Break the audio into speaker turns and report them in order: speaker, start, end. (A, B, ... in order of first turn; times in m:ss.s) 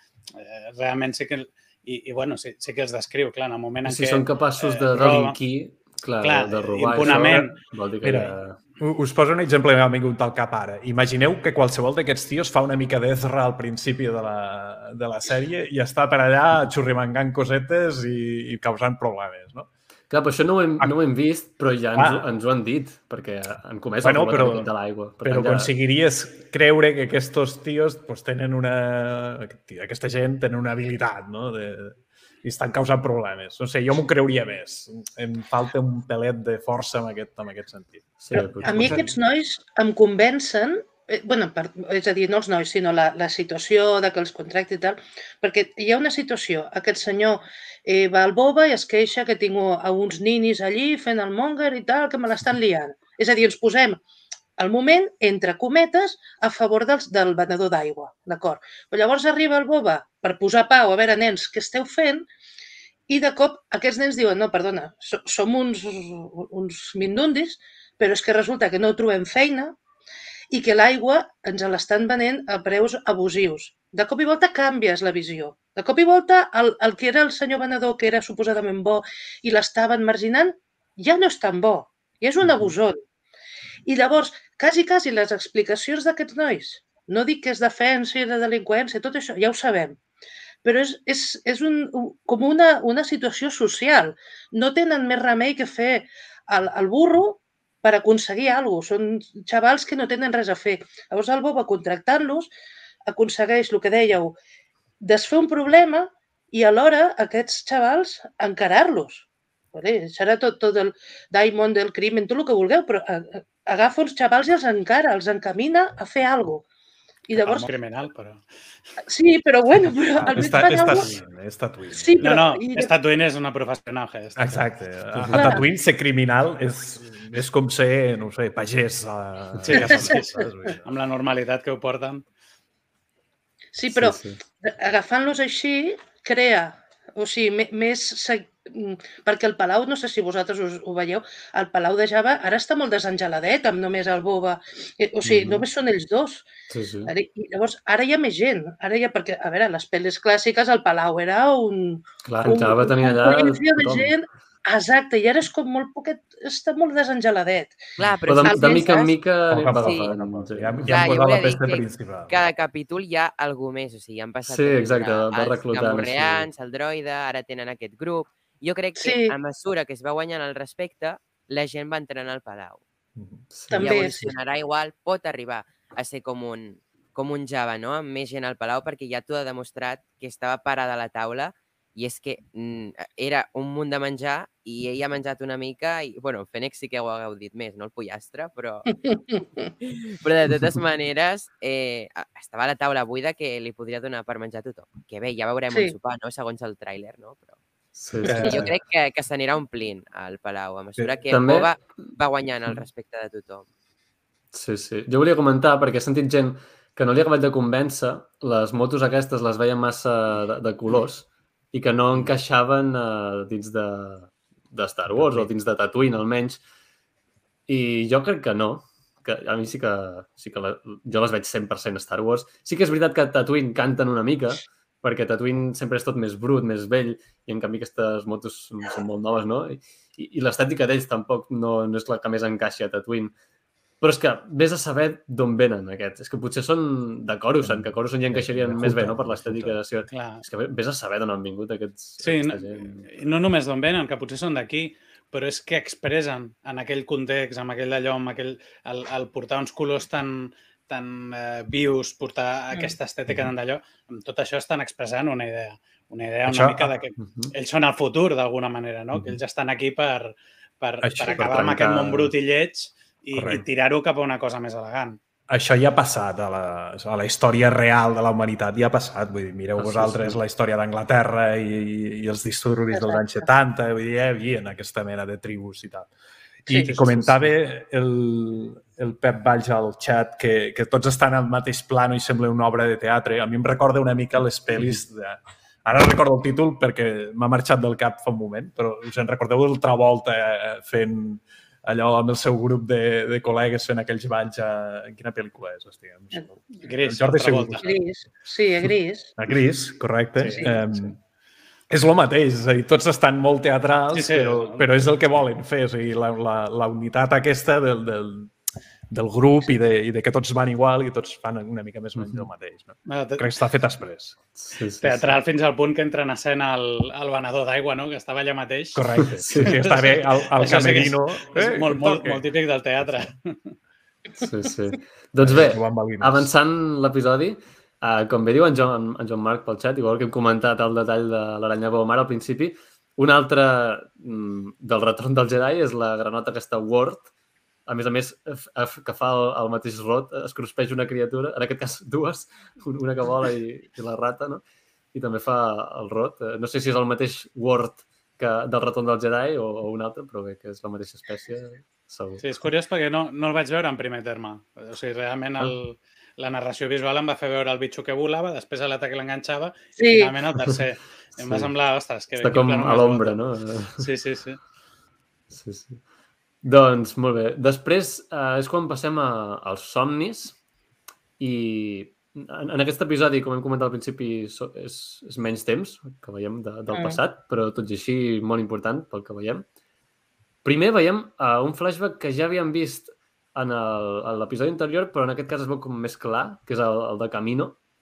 0:00.4-0:05.4 A
0:03.8-0:08.6 B
0:06.2-0:07.6 A
0:07.0-0:19.7 C
0:20.1-0:25.7 B
0:22.0-0:22.2 C
0:24.0-0:39.1 C
0:38.2-0:39.0 B
0:38.3-0:54.0 D
0:54.6-1:02.3 D
1:03.1-1:09.8 D
1:10.5-1:23.0 D
1:22.4-1:22.7 C
1:23.9-1:30.0 D
1:30.6-1:42.5 D
1:43.1-1:44.4 D
1:45.0-1:56.7 D
1:57.3-1:57.7 D
1:57.4-1:58.5 A
1:59.1-2:01.1 D
2:00.2-2:02.4 C
2:01.9-2:02.9 D
2:02.2-2:04.7 A
2:04.4-2:10.9 C
2:05.1-2:05.6 B
2:05.3-2:05.7 D
2:09.6-2:12.3 A
2:09.7-2:10.2 D
2:13.7-2:26.4 D
2:13.9-2:14.4 B
2:25.2-2:25.6 B
2:26.7-2:27.1 B
2:27.1-2:37.8 D
2:32.2-2:34.2 B
2:38.0-2:39.0 E
2:38.2-2:41.2 B
2:38.4-2:39.1 D
2:39.5-2:42.4 C
2:39.8-2:40.1 E
2:40.9-2:52.8 E
2:44.5-2:46.5 B
2:49.0-2:49.4 D
2:53.2-2:53.4 C
2:53.5-2:54.1 B
2:53.7-2:54.3 D
2:53.8-3:09.0 E
3:08.9-3:09.7 D
3:09.8-3:17.6 E
3:18.0-3:18.7 B
3:18.2-3:18.7 C
3:18.2-3:23.7 E
3:21.3-3:21.7 B
3:24.5-3:36.6 B
3:35.1-3:35.5 C
3:37.7-3:53.3 B
3:54.0-4:03.1 B
3:57.6-3:59.8 C
4:00.1-4:00.4 A
4:02.2-4:25.2 A
4:16.5-4:16.9 C
4:17.2-4:17.5 B
4:21.0-4:21.7 C
4:21.3-4:22.3 B
4:23.4-4:23.6 C
4:25.5-4:36.1 C
4:29.8-4:30.4 B
4:32.9-4:33.5 D
4:36.6-4:57.9 C
4:36.8-4:37.5 B
4:56.7-4:57.9 A
4:57.8-4:59.3 D
4:59.4-5:01.2 C
5:00.4-5:00.8 A
5:00.6-5:00.9 D
5:01.9-5:08.5 C
5:04.1-5:04.9 A
5:09.1-5:14.4 C
5:12.2-5:12.5 B
5:13.1-5:13.5 A
5:14.6-5:15.2 B
5:15.0-5:23.8 A
5:19.0-5:22.4 C
5:19.4-5:19.8 B
5:24.4-5:37.3 B
5:25.4-5:26.5 C
5:37.9-5:52.5 B
5:52.4-6:03.4 A
6:00.0-6:00.4 D
6:01.4-6:01.7 B
6:02.4-6:04.1 B
6:03.9-6:04.6 A
6:05.5-6:06.0 B
6:06.6-6:10.6 B
6:11.4-6:19.6 B
6:16.9-6:17.2 D
6:20.6-6:27.8 B